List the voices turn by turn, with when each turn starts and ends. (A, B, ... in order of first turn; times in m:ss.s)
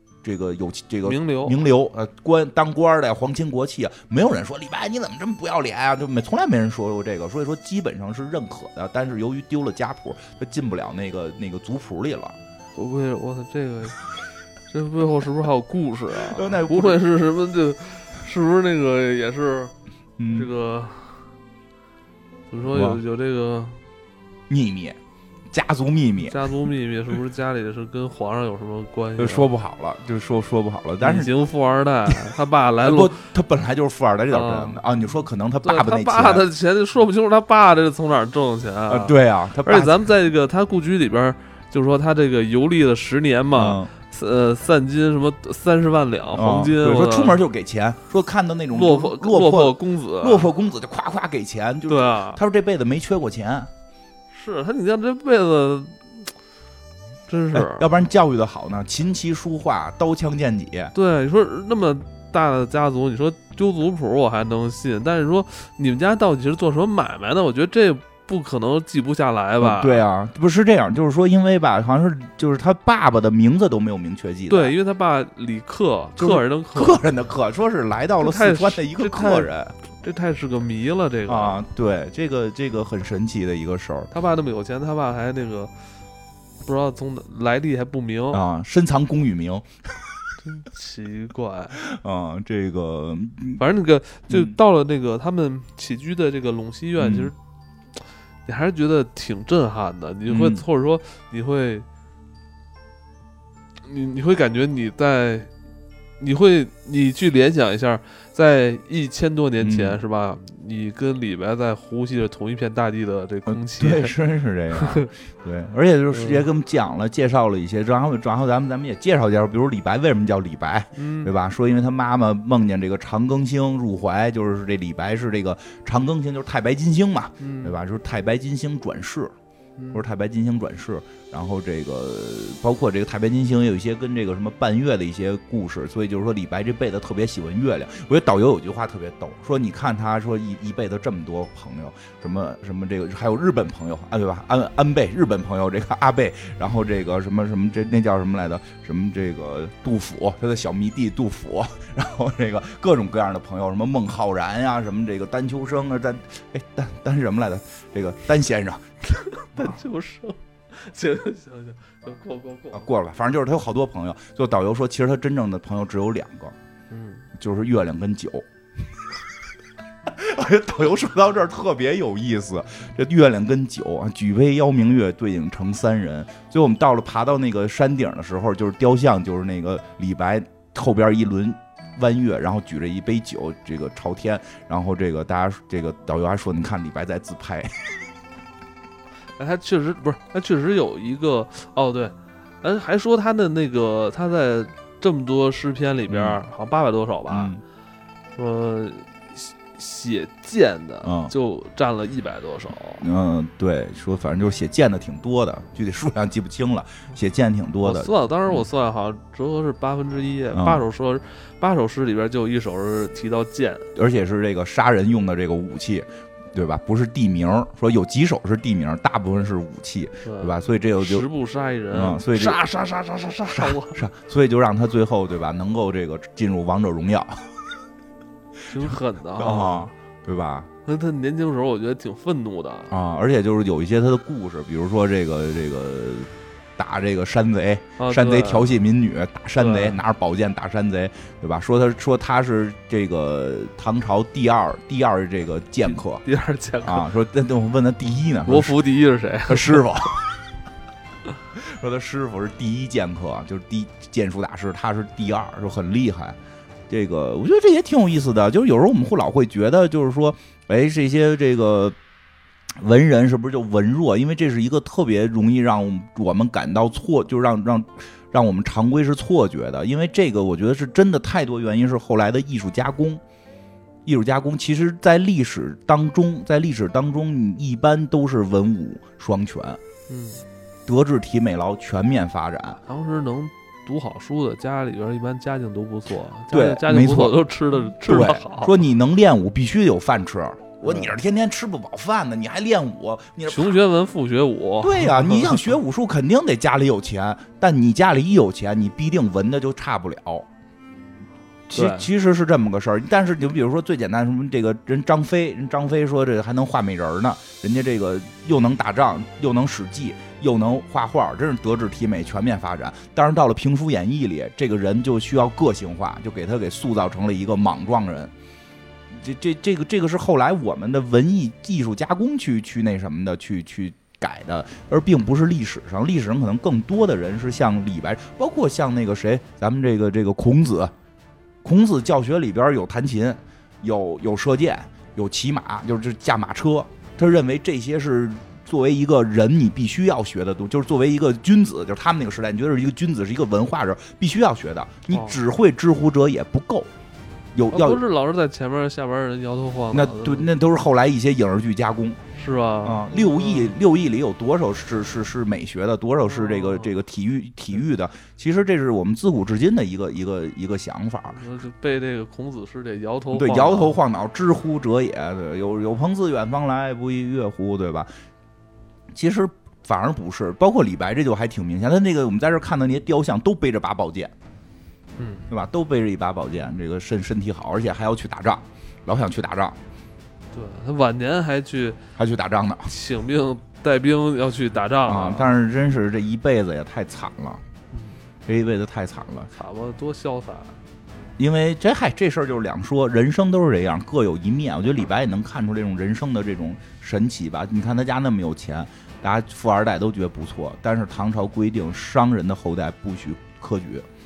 0:00.2-0:12.4 A
0:01.0-0:01.6 B
0:12.8-0:14.2 B
0:14.7-0:19.7 B
0:16.2-0:17.0 A
0:20.2-0:20.5 A
0:20.3-0:21.2 B
0:22.5-0:23.8 B
0:22.7-0:23.0 A
0:24.5-0:25.0 A
0:25.5-0:26.4 A
0:26.2-0:29.5 B
0:29.2-0:31.3 A
0:31.0-0:33.2 B
0:32.8-0:36.4 A
0:34.3-0:34.8 B
0:35.6-0:47.4 B
0:38.9-0:40.0 A
0:43.5-0:43.9 A
0:46.3-0:53.7 A
0:48.7-0:50.5 B
0:51.9-0:52.4 B
0:54.3-0:56.3 B
0:57.3-0:57.9 B
0:57.5-1:00.9 A
1:00.9-1:10.0 B
1:09.6-1:14.7 A
1:14.5-1:17.0 B
1:16.2-1:19.8 A
1:18.2-1:21.6 B
1:21.3-1:24.1 A
1:24.1-1:25.7 B
1:26.6-1:28.4 B
1:28.3-1:30.2 A
1:30.4-1:31.8 B
1:31.8-1:33.6 A
1:33.6-1:37.4 B
1:34.3-1:34.6 A
1:37.0-1:37.3 A
1:38.4-1:41.9 B
1:40.3-1:40.6 A
1:43.8-1:45.5 B
1:46.2-1:54.1 B
1:49.6-1:50.0 A
1:53.5-2:09.3 A
1:54.7-1:55.1 B
1:56.1-1:56.4 B
2:01.0-2:01.3 B
2:07.4-2:07.8 B
2:09.8-2:10.0 B
2:09.9-2:39.8 A
2:39.2-2:42.8 B
2:42.7-2:46.6 A
2:46.9-2:47.3 B
2:47.4-2:48.4 A
2:50.1-3:08.1 A
3:09.4-3:17.5 B
3:16.1-3:16.4 A
3:17.3-3:17.6 A
3:18.4-3:23.0 B
3:21.0-3:21.3 A
3:23.0-3:28.7 A
3:27.8-3:33.9 B
3:30.6-3:30.8 A
3:34.0-3:41.3 A
3:40.2-3:44.0 B
3:41.9-3:42.6 A
3:43.5-3:47.5 A
3:48.7-3:49.9 B
3:48.8-3:50.7 A
3:50.8-3:52.9 B
3:52.9-4:06.2 A
3:58.0-3:58.7 B
3:59.6-4:00.0 B
4:06.2-4:07.1 B
4:06.8-4:08.8 A
4:08.4-4:10.1 B
4:09.5-4:10.4 A
4:11.5-4:16.4 A
4:16.9-4:22.0 A
4:22.8-4:33.2 A
4:34.0-4:39.8 A
4:40.1-4:40.4 B
4:40.9-4:42.8 A
4:42.9-4:48.8 B
4:46.5-4:53.8 A
4:50.9-4:51.1 B
4:53.5-4:55.7 B
4:54.8-5:00.5 A
5:01.7-5:18.3 A
5:01.7-5:02.1 B
5:19.1-5:30.9 A
5:31.6-5:46.9 A
5:45.1-5:45.4 B
5:47.6-5:48.0 A
5:47.7-5:50.5 B
5:49.9-5:52.2 A
5:52.4-5:53.8 B
5:52.8-6:01.4 A
5:56.3-5:56.9 B
6:01.3-6:04.0 B
6:03.3-6:08.1 A
6:09.1-6:14.3 A
6:15.2-6:15.5 B
6:15.5-6:19.8 A
6:20.5-6:22.0 B
6:22.2-6:22.9 A
6:22.9-6:25.5 B
6:25.1-6:27.6 A
6:28.4-6:29.5 A
6:29.5-6:30.8 B
6:31.4-6:44.1 A